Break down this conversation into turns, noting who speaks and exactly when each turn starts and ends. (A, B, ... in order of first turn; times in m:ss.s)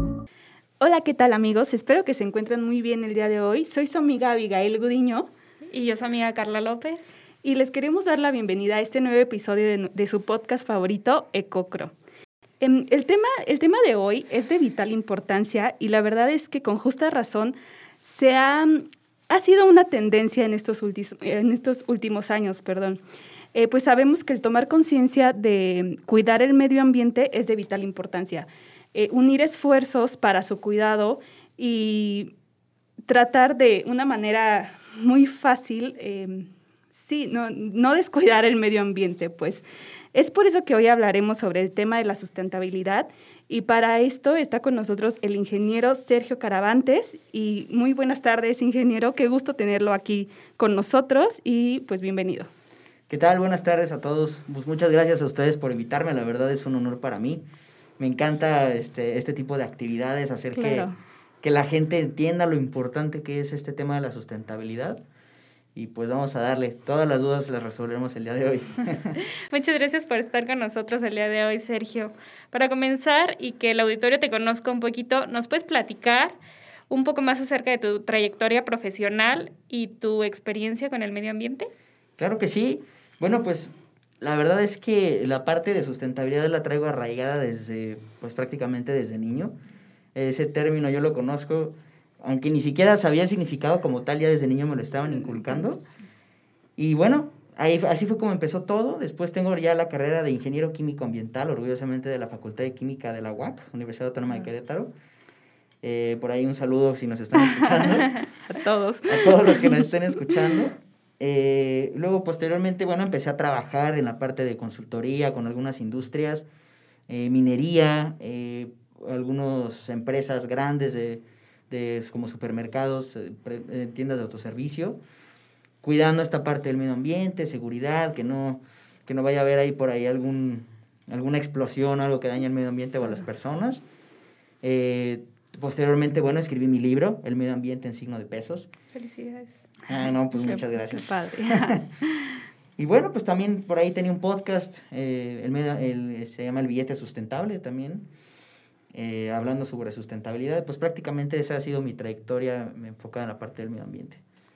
0:00.8-0:05.3 A
0:05.7-0:07.1 B
0:07.4-0:11.9 A
0:12.6-0:23.0 A
0:23.5-0:32.3 A
0:33.0-0:52.5 A
0:53.1-0:57.4 C
0:58.0-1:00.9 C
1:00.5-1:01.0 A
1:01.4-1:05.0 C
1:05.8-1:09.2 C
1:09.2-1:16.4 B
1:16.9-1:21.7 B
1:22.2-1:29.6 C
1:30.2-1:35.8 C
1:36.8-1:44.9 C
1:45.8-1:48.2 C
1:47.6-1:49.9 A
1:49.1-1:56.5 C
1:57.1-2:05.0 C
2:05.8-2:13.8 C
2:14.6-2:18.7 C
2:19.0-2:22.3 A
2:19.9-2:21.8 C
2:22.8-2:28.1 C
2:28.9-2:34.2 C